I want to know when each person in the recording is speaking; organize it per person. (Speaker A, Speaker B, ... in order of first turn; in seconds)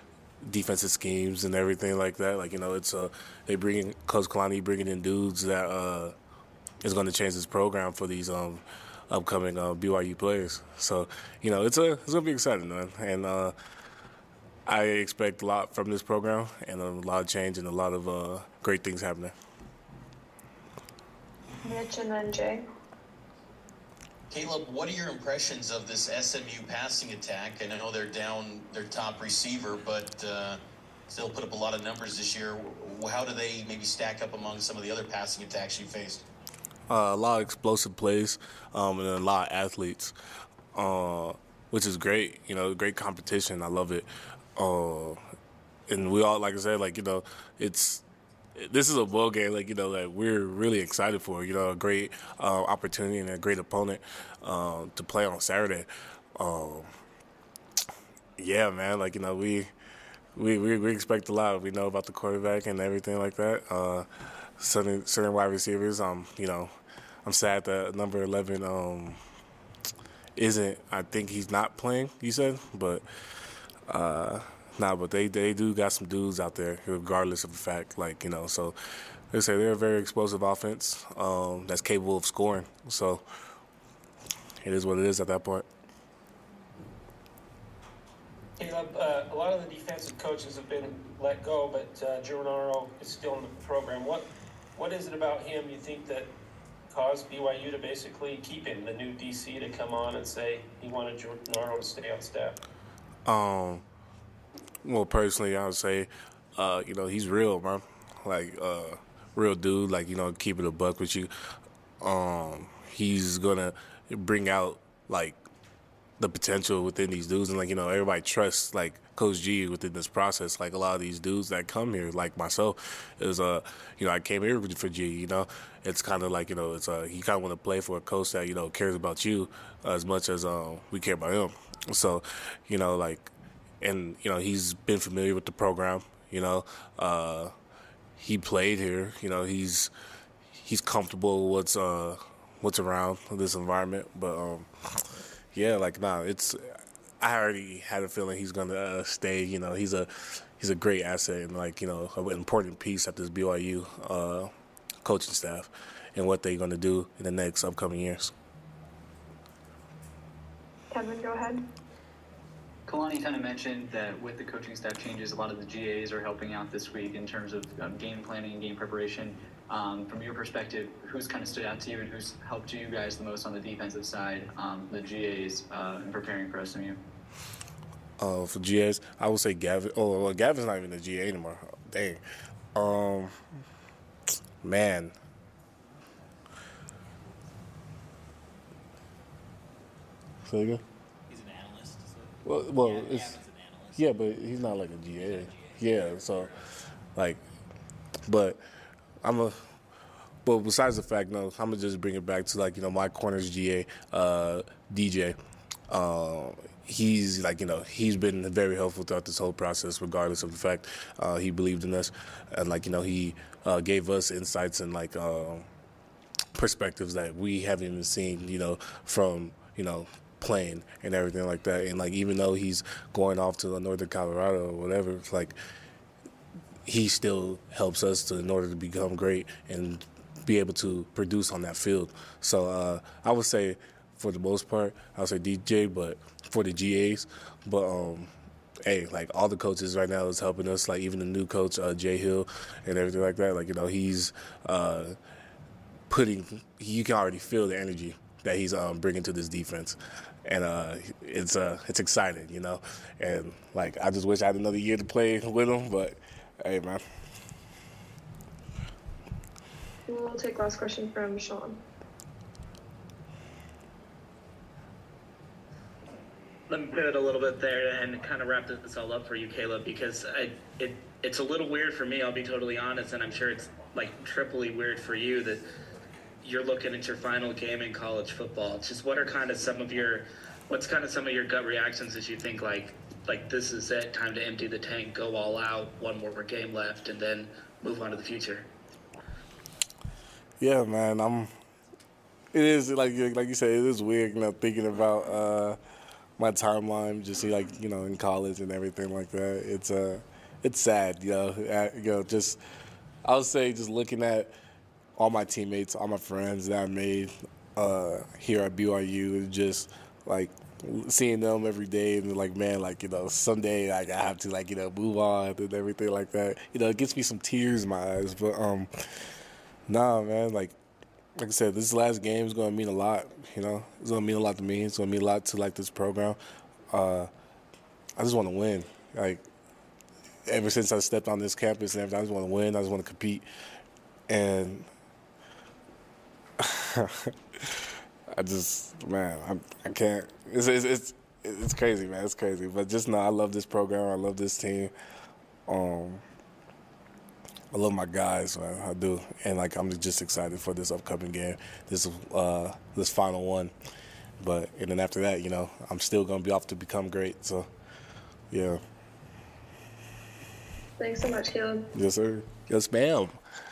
Speaker A: 0.4-6.1, 6.8-13.6, 14.7-19.3, 36.9-40.1, 40.8-45.2, 45.9-48.0, 48.5-56.9, 58.4-59.7, 60.4-64.1, 64.6-66.7, 67.2-69.2, 70.4-73.0, 73.9-78.8, 79.3-83.2, 84.6-85.7, 103.3-103.8, 104.8-111.3, 112.0-115.4, 116.2-137.5, 138.2-139.9, 140.6-144.7, 145.5-146.6, 147.2-154.5, 155.0-158.3, 178.2-182.2, 182.8-183.4, 184.6-185.2, 190.4-190.8, 192.4-193.4, 193.9-196.6, 197.2-197.4, 198.3-198.6, 199.2-199.6, 200.4-205.4, 205.9-215.7, 216.6-225.6, 226.9-238.3, 238.8-245.2, 246.1-257.0, 290.6-291.5, 292.5-295.8, 296.4-302.6, 303.2-304.5, 305.2-318.9, 319.9-320.8, 321.4-326.4, 326.9-327.3, 328.2-329.4, 330.5-333.4, 334.3-334.9, 336.6-337.3, 338.4-344.9, 345.7-346.2, 347.7-353.7, 354.4-357.7, 358.5-358.8, 361.9-363.4
Speaker B: 21.6-22.6, 160.9-161.6, 260.1-261.8, 361.0-361.9
Speaker C: 24.3-36.2
Speaker D: 88.6-94.2, 94.8-96.3, 96.9-102.5
Speaker E: 162.9-177.0
Speaker F: 191.3-194.1, 195.2-196.5
Speaker G: 266.7-275.6, 276.4-288.7